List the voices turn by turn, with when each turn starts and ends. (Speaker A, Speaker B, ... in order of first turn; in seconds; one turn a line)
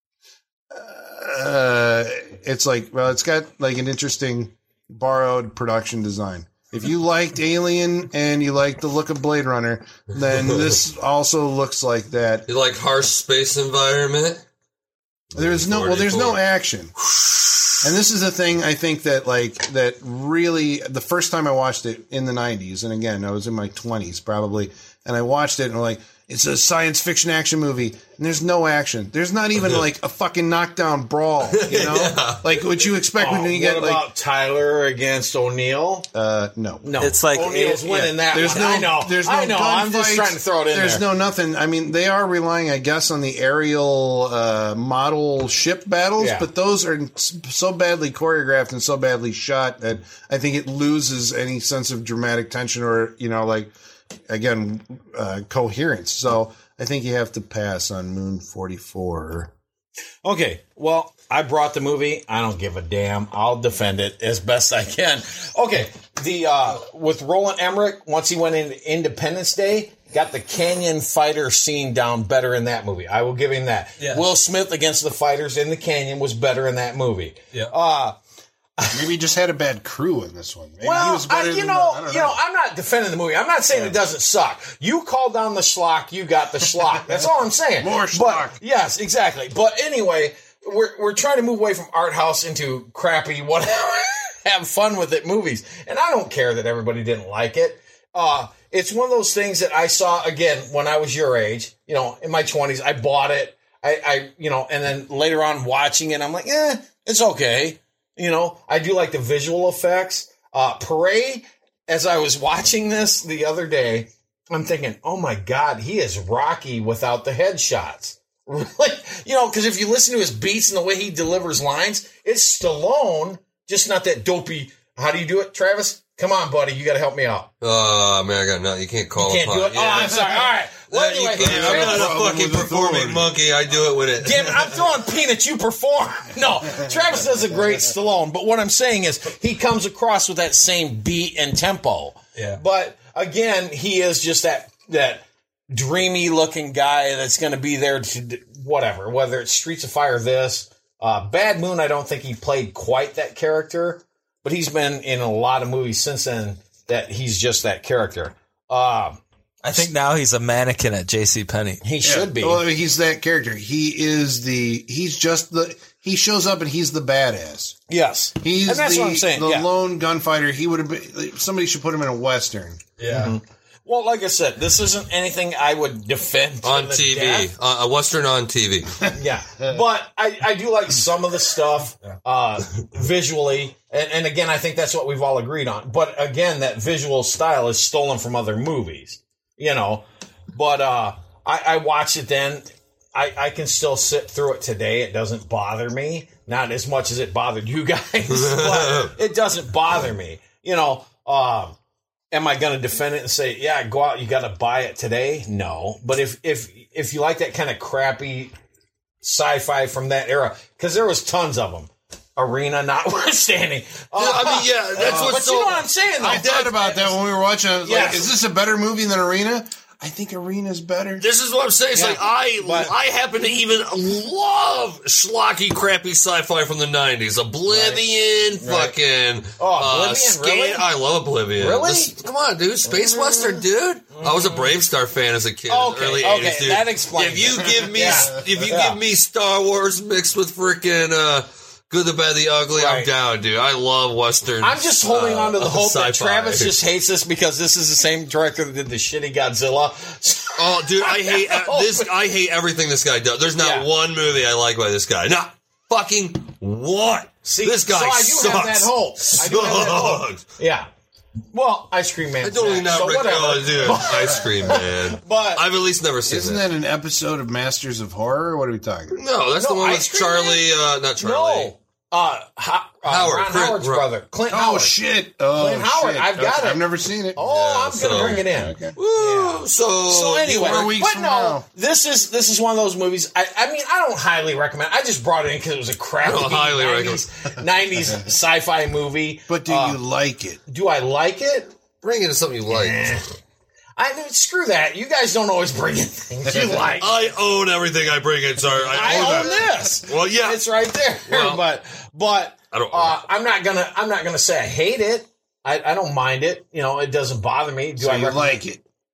Speaker A: 0.7-12.5
Speaker B: 12.5-14.4
Speaker B: 15.3-16.4
Speaker A: 15.3-16.9
Speaker B: 17.1-17.7
Speaker A: 17.8-34.1
Speaker B: 31.5-32.5
Speaker C: 33.2-36.1
Speaker A: 36.1-36.9
Speaker C: 36.8-41.0
Speaker D: 37.0-38.5
Speaker A: 38.3-53.7
Speaker C: 46.2-46.5
Speaker A: 54.3-59.5
Speaker C: 60.2-78.2
Speaker D: 74.0-74.3
Speaker A: 78.9-82.4
Speaker C: 80.8-127.5
Speaker A: 87.8-88.6
Speaker B: 127.6-130.2
Speaker C: 129.2-132.1
Speaker A: 129.9-130.5
Speaker B: 130.9-134.8
Speaker A: 131.3-133.3
Speaker C: 134.2-159.2
Speaker D: 159.6-161.8
Speaker C: 161.8-162.6
Speaker A: 162.0-167.8
Speaker C: 167.9-169.7
Speaker A: 168.4-172.8
Speaker D: 173.0-173.3
Speaker C: 173.1-177.5
Speaker B: 176.6-179.0
Speaker C: 179.1-201.8
Speaker B: 198.3-199.1
Speaker C: 202.3-208.5
Speaker C: 209.2-216.9
Speaker B: 214.2-217.0
Speaker A: 215.0-215.4
Speaker A: 216.2-221.2
Speaker C: 217.8-218.3
Speaker B: 221.2-246.8
Speaker C: 221.9-222.9
Speaker C: 227.7-228.1
Speaker C: 228.6-228.9
Speaker C: 229.6-230.8
Speaker C: 231.6-232.1
Speaker C: 232.8-234.7
Speaker C: 235.7-239.0
Speaker A: 238.1-238.4
Speaker C: 242.8-243.1
Speaker C: 244.6-252.1
Speaker B: 250.6-260.4
Speaker C: 253.6-253.9
Speaker C: 257.4-260.9
Speaker C: 261.5-265.6
Speaker B: 262.4-266.6
Speaker A: 266.2-269.2
Speaker B: 269.1-271.7
Speaker C: 269.6-275.0
Speaker B: 273.1-274.1
Speaker A: 274.5-277.4
Speaker C: 275.5-290.0
Speaker B: 277.4-280.9
Speaker A: 278.1-279.0
Speaker A: 280.5-281.7
Speaker B: 286.2-287.3
Speaker A: 289.5-290.6
Speaker C: 290.7-291.7
Speaker B: 292.0-293.2
Speaker C: 292.7-293.3
Speaker C: 294.0-297.2
Speaker A: 296.5-296.9
Speaker B: 297.0-301.6
Speaker C: 298.9-308.6
Speaker A: 299.0-299.6
Speaker B: 302.7-303.2
Speaker A: 308.0-308.8